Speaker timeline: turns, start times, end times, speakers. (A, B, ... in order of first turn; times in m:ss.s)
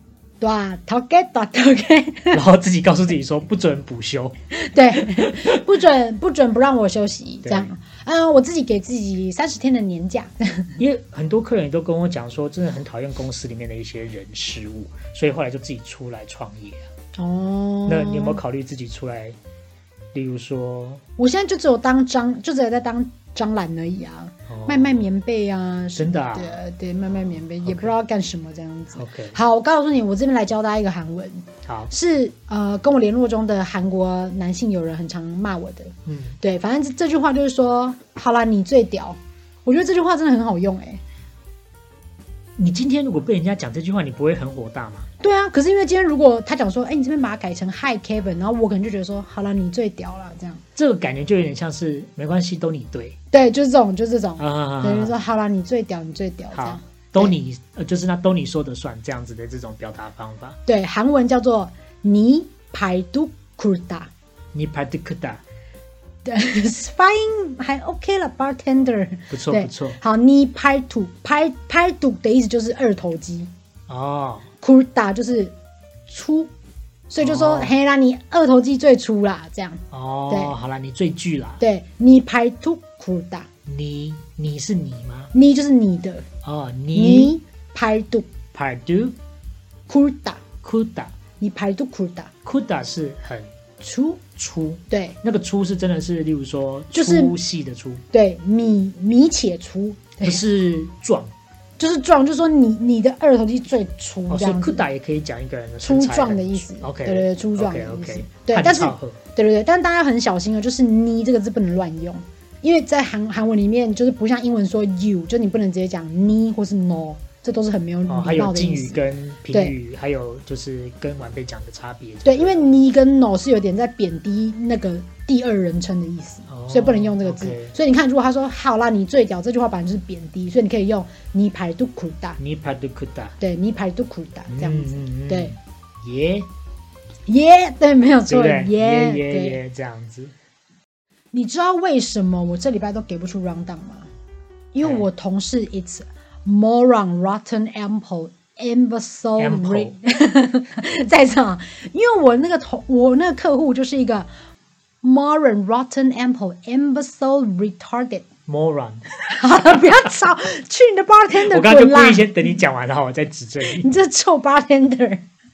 0:00.4-0:02.4 A
0:02.3-0:04.4 B
0:04.5-0:10.8 A
0:05.0-0:05.5 B
0:07.4-0:07.7 B
0:10.8-0:16.9 B
0:17.2-0:18.4 A
0:17.9-0:19.4 B
0:20.1-0:21.0 B
0:21.2-0:41.0 A
0:24.5-0:25.0 B
0:26.0-0:26.6 B
0:27.6-0:27.9 B
0:29.0-0:29.4 B
0:31.6-0:31.9 B
0:36.0-0:36.4 B
0:42.6-0:45.1 B
0:45.2-0:50.6 A
0:50.8-0:53.2 B
0:53.3-0:57.3 A
0:54.4-0:55.1 B
0:56.5-1:00.6 B
1:00.6-1:04.1 A
1:04.5-1:05.4 B
1:06.2-1:13.5 A
1:09.3-1:10.0 B
1:13.9-1:14.5 B
1:14.6-1:15.5 A
1:16.1-1:16.5 A
1:17.1-1:20.5 A
1:17.2-1:17.7 B
1:19.9-1:21.6 B
1:21.6-1:23.5 A
1:23.6-1:25.3 B
1:25.3-1:26.3 A
1:26.4-1:27.3 B
1:26.9-1:28.3 A
1:28.5-1:29.2 B
1:29.9-1:30.4 A
1:30.6-1:31.1 B
1:31.4-1:32.3 A
1:32.4-1:33.5 B
1:33.8-1:34.2 A
1:34.4-1:38.0 B
1:34.9-1:35.2 A
1:36.9-1:37.3 A
1:38.1-1:40.4 A
1:40.2-1:41.3 B
1:41.8-1:44.8 A
1:44.3-1:49.2 B
1:45.8-1:59.0 A
1:58.1-2:02.7 B
2:02.2-2:12.4 A
2:06.5-2:07.7 B
2:12.4-2:13.4 B
2:13.4-2:15.5 A
2:14.5-2:16.5 B
2:17.3-2:19.6 A
2:18.3-2:20.3 B
2:21.3-2:24.1 A
2:24.7-2:34.3 A
2:29.4-2:29.9 B
2:35.0-2:38.3 A
2:38.5-2:39.1 B
2:39.2-2:42.5 A
2:41.4-2:43.9 B
2:43.6-2:45.2 A